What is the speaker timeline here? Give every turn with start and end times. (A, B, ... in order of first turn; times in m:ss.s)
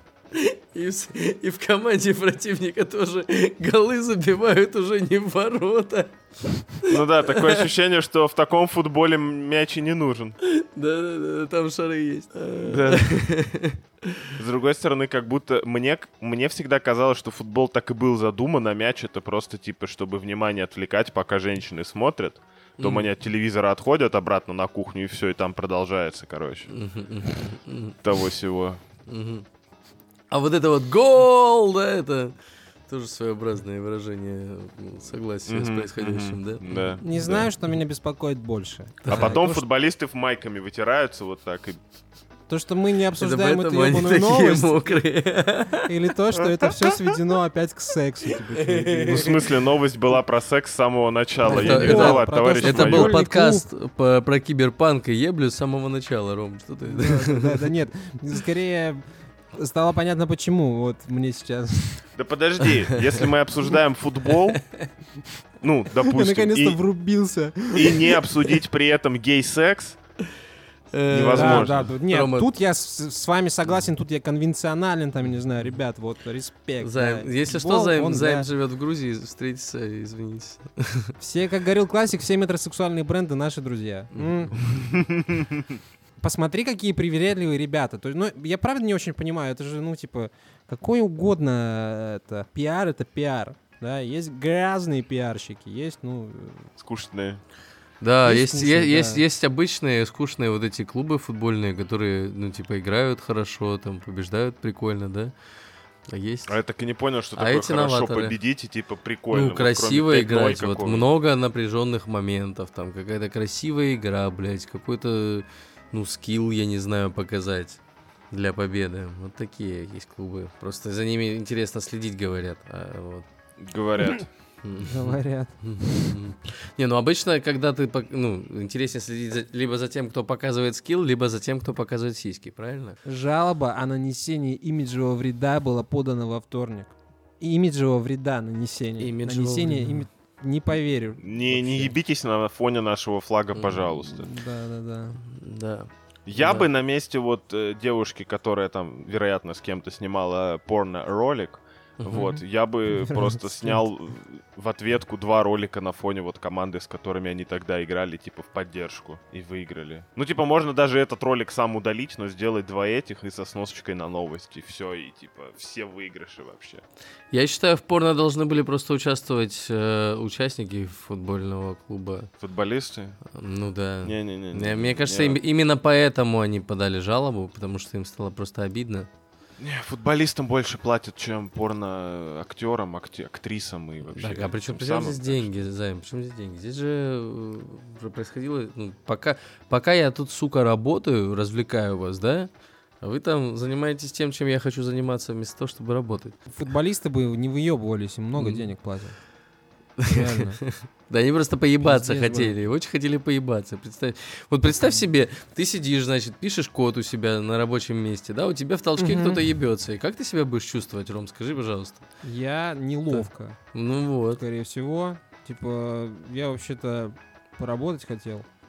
0:00.3-0:07.7 A
0:06.9-0:10.4 B
0:10.4-0:14.3 A
0:12.6-0:13.3 B
0:14.4-0:26.7 B
0:22.8-0:23.1 A
0:26.7-0:28.0 A
0:28.0-0:28.8 B
0:29.1-0:29.4 A
0:30.3-0:32.4 A
0:32.9-0:37.5 A
0:35.5-0:37.4 B
0:37.0-0:39.6 C
0:39.0-0:39.4 A
0:39.1-0:41.8 B
0:42.5-0:45.0 C
0:43.2-0:45.9 A
0:45.8-0:49.3 C
0:48.5-0:49.4 A
0:49.1-0:53.1 B
0:51.4-0:53.6 C
0:51.5-0:57.7 A
0:56.8-0:59.0 C
0:59.5-1:02.0 C
1:02.2-1:04.6 B
1:04.4-1:04.9 A
1:05.6-1:06.8 B
1:06.0-1:08.3 C
1:07.7-1:10.0 B
1:10.9-1:12.5 A
1:11.1-1:11.9 B
1:11.3-1:18.5 C
1:16.8-1:21.1 A
1:21.2-1:24.6 C
1:24.1-1:24.9 A
1:24.9-1:25.5 B
1:26.2-1:36.7 C
1:36.8-1:37.4 B
1:38.0-1:45.3 A
1:38.2-1:39.2 C
1:46.1-1:46.5 A
1:46.5-1:51.0 B
1:47.3-1:48.4 A
1:49.3-1:57.8 A
1:58.3-2:03.2 A
2:03.6-2:04.2 B
2:04.6-2:13.0 A
2:04.8-2:05.6 C
2:13.0-2:21.9 C
2:19.0-2:20.1 A
2:21.2-2:24.3 B
2:23.5-2:23.9 A
2:24.0-2:25.2 C
2:25.2-2:26.7 A
2:26.2-2:46.8 B
2:32.0-2:32.4 A
2:33.0-2:33.8 C
2:47.3-2:52.3 A
2:52.4-2:53.2 B
2:53.3-2:59.1 A
2:54.0-2:55.4 B
2:59.6-3:05.5 B
3:04.0-3:12.5 A
3:13.0-3:16.4 A
3:16.5-3:19.2 C
3:18.4-3:18.7 A
3:20.0-3:32.0 A
3:20.1-3:20.6 C
3:21.8-3:22.6 C
3:29.0-3:29.4 C
3:32.2-3:33.6 C
3:33.1-3:34.4 A
3:34.4-3:38.4 C